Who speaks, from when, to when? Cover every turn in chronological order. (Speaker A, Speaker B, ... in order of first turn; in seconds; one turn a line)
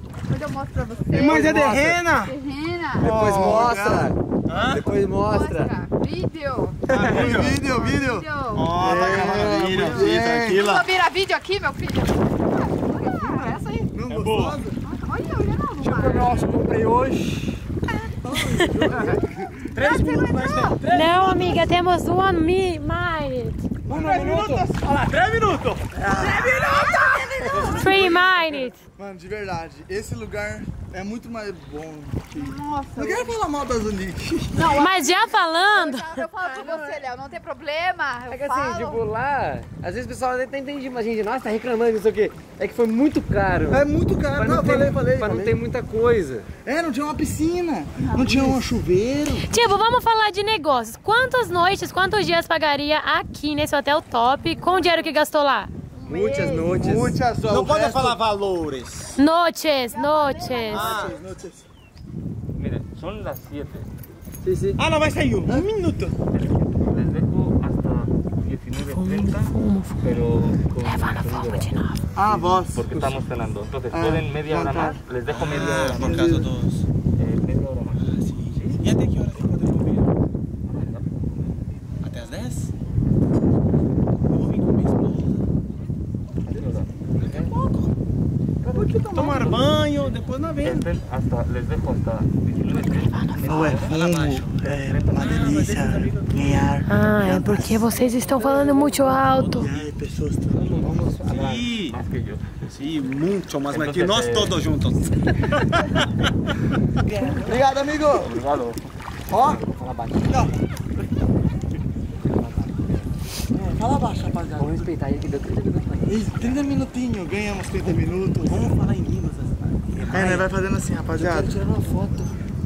Speaker A: 0.3-3.2
Speaker B: 1.1-2.4
Speaker C: 1.3-1.9
Speaker C: 3.0-5.7
Speaker D: 3.0-4.1
Speaker B: 4.5-4.8
Speaker A: 5.1-13.9
Speaker B: 6.9-7.6
Speaker D: 6.9-10.8
Speaker B: 8.5-10.9
Speaker D: 13.9-14.8
Speaker B: 14.1-14.6
Speaker A: 14.8-16.7
Speaker B: 15.8-17.6
Speaker A: 17.9-19.1
Speaker B: 18.3-21.7
Speaker D: 18.3-19.5
Speaker A: 19.8-20.8
Speaker E: 20.9-23.6
Speaker D: 23.9-24.7
Speaker B: 23.9-28.2
Speaker D: 25.9-28.3
Speaker E: 27.7-28.8
Speaker D: 29.0-35.0
Speaker A: 32.3-33.4
Speaker A: 34.5-39.0
Speaker E: 34.7-36.1
Speaker C: 36.5-37.0
Speaker C: 38.3-46.5
Speaker D: 43.7-45.6
Speaker D: 46.6-49.8
Speaker A: 48.0-48.4
Speaker E: 49.4-55.7
Speaker A: 56.0-56.8
Speaker C: 56.1-57.1
Speaker D: 56.7-58.2
Speaker B: 57.4-59.1
Speaker E: 59.1-60.9
Speaker A: 59.9-61.3
Speaker B: 60.7-61.2
Speaker D: 60.7-61.6
Speaker F: 62.5-63.9
Speaker C: 64.4-64.8
Speaker B: 64.8-66.1
Speaker F: 66.3-76.5
Speaker E: 68.8-70.2
Speaker E: 70.7-72.0
Speaker D: 72.2-73.2
Speaker D: 73.9-75.0
Speaker B: 75.3-76.8
Speaker D: 75.5-76.5
Speaker F: 77.1-78.7
Speaker B: 78.0-80.1
Speaker F: 80.7-81.6
Speaker B: 82.0-82.7
Speaker B: 84.3-85.4
Speaker F: 86.5-87.5
Speaker B: 87.2-87.9
Speaker B: 88.7-90.9
Speaker C: 88.7-89.8
Speaker F: 90.6-94.0
Speaker E: 93.1-93.4
Speaker D: 93.4-97.9
Speaker B: 93.8-94.5
Speaker F: 94.7-95.7
Speaker B: 95.2-96.8
Speaker E: 96.8-99.7
Speaker C: 98.5-99.0
Speaker B: 99.1-99.9
Speaker D: 99.6-100.8
Speaker C: 100.8-101.2
Speaker F: 100.8-102.5
Speaker B: 101.2-102.0
Speaker B: 102.6-106.1
Speaker F: 103.7-104.6
Speaker B: 107.0-107.4
Speaker D: 107.2-108.3
Speaker F: 108.2-108.9
Speaker D: 109.3-109.7
Speaker C: 109.3-110.5
Speaker D: 110.3-110.5
Speaker C: 112.2-113.0
Speaker D: 113.5-114.9
Speaker C: 114.5-116.6
Speaker D: 116.0-118.8
Speaker B: 118.4-120.5
Speaker C: 120.1-120.4
Speaker D: 120.1-121.6
Speaker C: 121.1-122.3